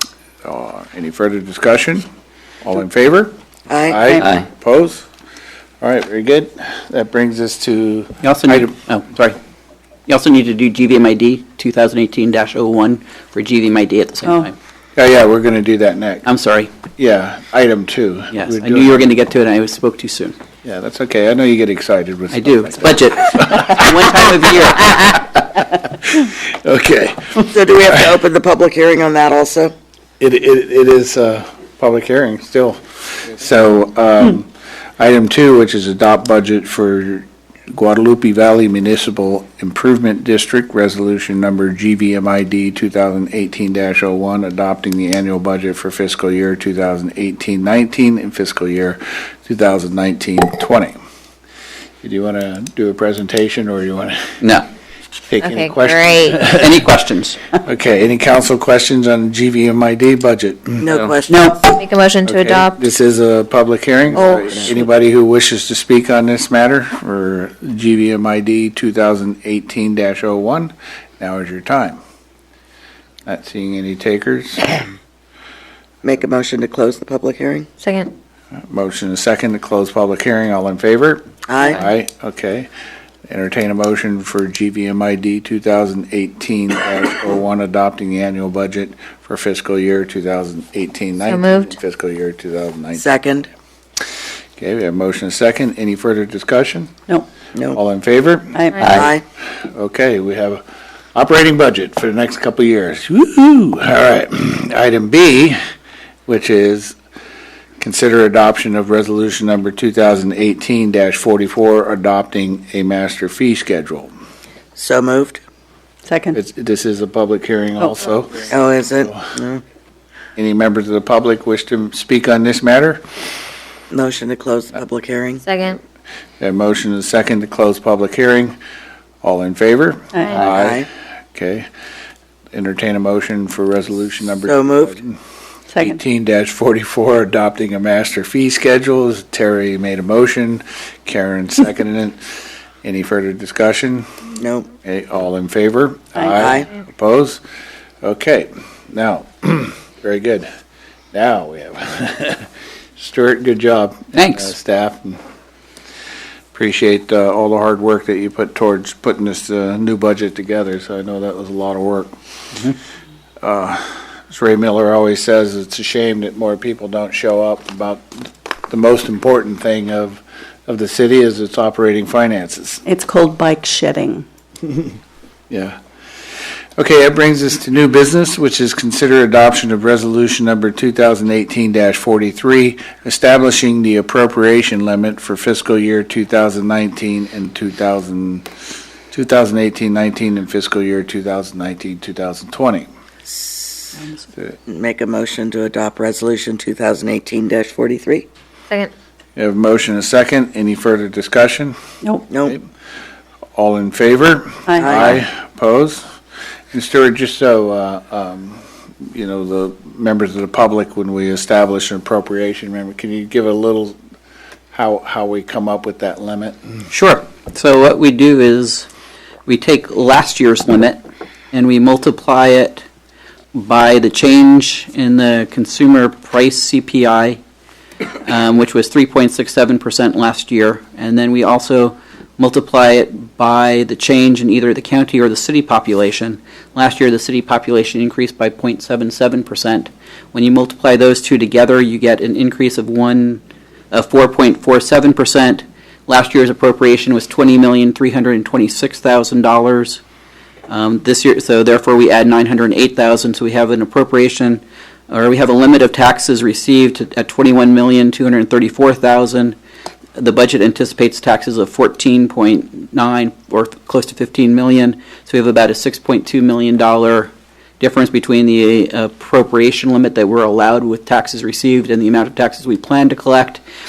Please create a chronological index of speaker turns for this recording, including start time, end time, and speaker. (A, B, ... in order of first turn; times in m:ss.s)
0:00.4-0:02.0 A
0:02.6-0:03.3 A
0:03.7-0:04.0 B
0:03.8-0:05.0 A
0:05.8-0:08.7 A
0:08.2-0:09.4 C
0:10.1-0:14.6 C
0:14.2-0:14.5 D
0:15.0-0:16.3 A
0:16.2-0:16.7 C
0:17.0-0:19.1 A
0:18.3-0:20.4 C
0:20.6-0:27.6 A
0:22.3-0:25.2 C
0:27.4-0:29.7 B
0:30.2-0:51.0 A
0:52.0-0:54.4 A
0:55.3-0:56.7 A
0:55.4-0:56.4 E
0:56.4-0:57.6 C
0:57.6-1:01.0 A
1:00.8-1:01.5 B
1:01.3-1:01.7 C
1:01.6-1:02.8 E
1:02.2-1:12.0 A
1:04.1-1:04.8 B
1:13.2-1:14.8 A
1:16.0-1:17.7 B
1:17.8-1:18.1 E
1:18.7-1:22.7 A
1:21.5-1:21.8 B
1:23.3-1:33.1 A
1:31.3-1:31.7 E
1:32.9-1:33.5 B
1:34.6-1:36.9 A
1:37.5-1:37.8 B
1:37.7-1:39.1 A
1:38.5-1:39.1 D
1:38.7-1:39.1 E
1:38.8-1:39.2 B
1:39.6-1:40.6 A
1:41.1-1:45.6 A
1:46.3-1:47.0 A
1:47.8-1:54.1 A
1:54.8-1:55.4 B
1:56.0-1:56.4 D
1:56.3-1:58.5 A
1:58.5-1:59.6 B
1:59.0-1:59.3 A
2:00.4-2:03.0 A
2:03.9-2:05.4 B
2:05.4-2:05.8 E
2:06.4-2:08.6 A
2:09.2-2:11.7 A
2:10.4-2:10.9 B
2:12.5-2:15.2 A
2:14.4-2:14.9 B
2:15.7-2:16.0 D
2:15.8-2:22.2 A
2:22.8-2:24.2 A
2:24.4-2:24.7 B
2:24.8-2:27.4 A
2:26.4-2:26.7 B
2:28.0-2:30.5 A
2:31.1-2:35.2 A
2:34.1-2:34.5 C
2:36.5-2:42.1 A
2:43.4-2:52.8 A
2:52.8-2:54.2 D
2:55.5-2:55.8 A
2:56.8-3:08.5 A
3:09.1-3:12.9 A
3:13.3-3:13.9 B
3:14.6-3:18.3 B
3:19.4-3:21.8 A
3:22.3-3:22.6 B
3:23.6-3:26.0 A
3:24.6-3:25.1 D
3:24.8-3:25.2 B
3:26.7-3:34.0 A
3:34.7-3:36.8 A
3:36.9-3:38.9 C
3:39.5-3:41.0 C
3:41.5-3:42.8 C
3:43.5-3:47.4 C
3:48.2-4:10.0 C
4:10.7-4:19.5 C
4:20.2-4:33.6 C